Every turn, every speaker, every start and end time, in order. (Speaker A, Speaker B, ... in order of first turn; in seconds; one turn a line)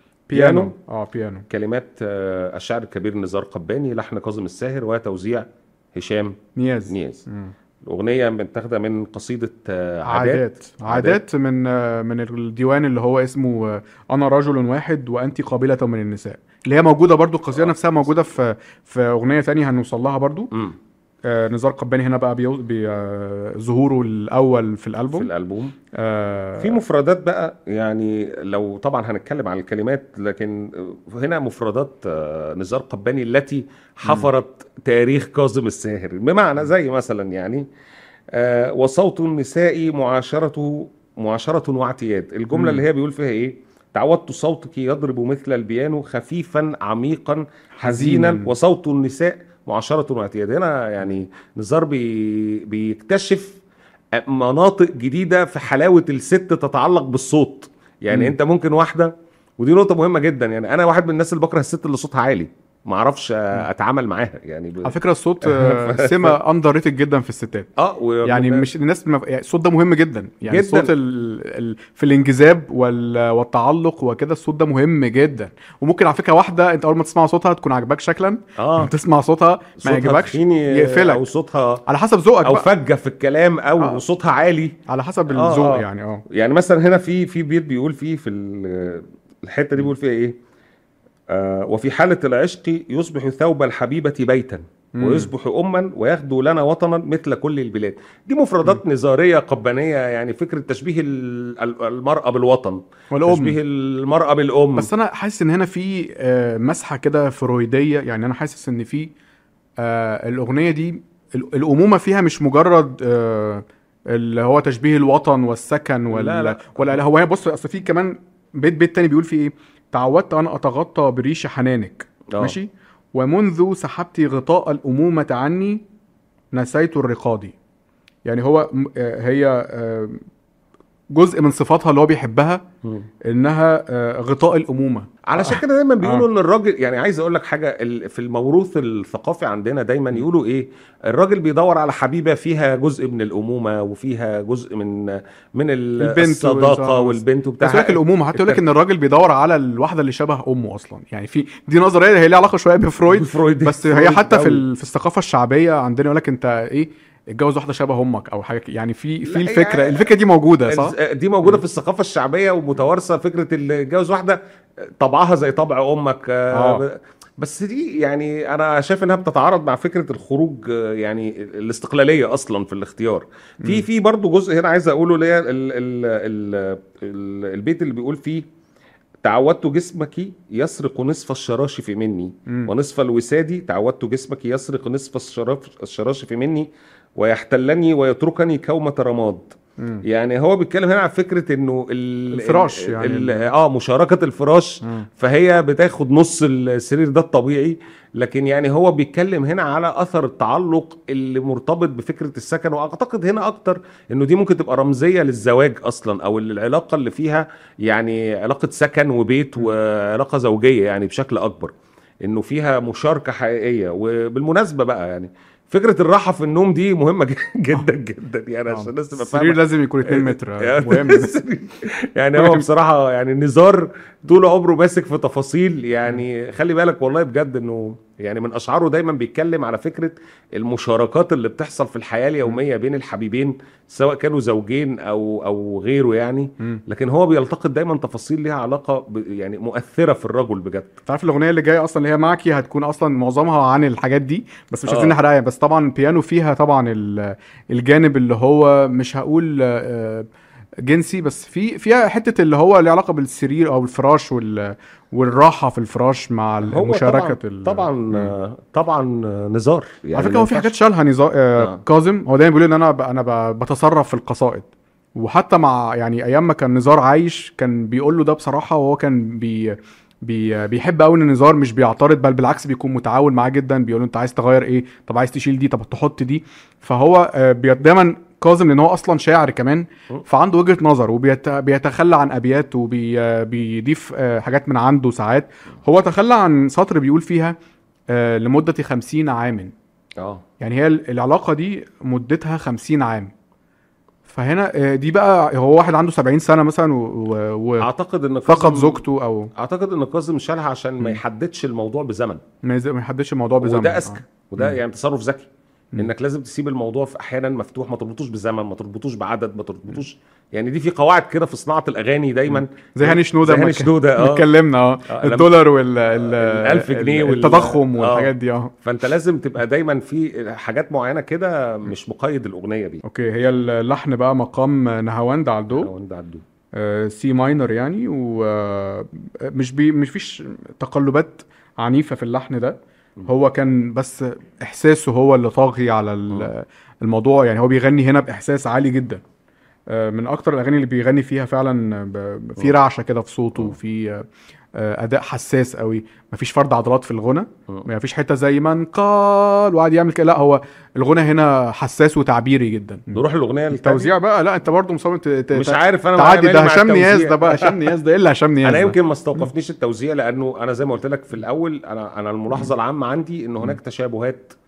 Speaker A: 0.3-1.4
Speaker B: 0.3-0.7
Speaker B: 1.5-6.3
Speaker A: 6.6-7.5
Speaker B: 6.9-7.2
Speaker B: 7.8-11.2
Speaker A: 10.1-20.5
Speaker A: 21.3-25.3
Speaker B: 25.1-25.8
Speaker A: 26.0-26.8
Speaker B: 26.6-37.6
Speaker A: 34.0-34.3
Speaker B: 38.3-53.6
Speaker A: 42.5-42.8
Speaker A: 47.8-48.5
Speaker B: 54.1-66.4
Speaker A: 64.8-67.7
Speaker B: 67.8-68.7
Speaker A: 68.2-81.2
Speaker B: 70.5-70.9
Speaker B: 78.6-78.9
Speaker B: 79.8-81.8
Speaker A: 81.9-82.7
Speaker B: 82.4-84.7
Speaker A: 84.9-86.2
Speaker B: 85.3-90.3
Speaker B: 91.3-104.9
Speaker A: 94.9-95.3
Speaker A: 103.1-103.6
Speaker A: 104.8-109.1
Speaker A: 109.8-125.8
Speaker B: 116.1-117.0
Speaker B: 122.3-122.5
Speaker A: 126.5-127.5
Speaker A: 128.2-130.2
Speaker A: 131.1-132.6
Speaker A: 133.2-136.3
Speaker B: 135.3-148.6
Speaker A: 146.0-161.6
Speaker B: 153.1-154.6
Speaker B: 159.2-160.1
Speaker B: 160.7-164.4
Speaker B: 165.0-178.4
Speaker A: 166.5-166.8
Speaker A: 173.6-173.8
Speaker B: 179.2-211.7
Speaker A: 192.3-193.5
Speaker B: 212.2-240.9
Speaker A: 218.7-221.3
Speaker A: 222.3-222.7
Speaker A: 241.1-250.3
Speaker B: 244.9-245.2
Speaker A: 250.8-258.3
Speaker B: 256.6-260.7
Speaker A: 260.1-287.6
Speaker A: 288.1-289.7
Speaker A: 290.6-293.3
Speaker A: 294.3-297.9
Speaker B: 297.8-299.0
Speaker A: 298.4-299.5
Speaker B: 299.6-302.4
Speaker A: 302.6-304.8
Speaker B: 303.6-314.4
Speaker A: 312.5-318.7
Speaker B: 315.1-315.5
Speaker B: 316.1-318.3
Speaker B: 318.8-323.0
Speaker A: 323.0-325.9
Speaker B: 325.7-326.4
Speaker A: 326.7-339.2
Speaker A: 339.9-359.5
Speaker B: 353.1-354.1
Speaker B: 355.5-357.9
Speaker B: 358.6-364.6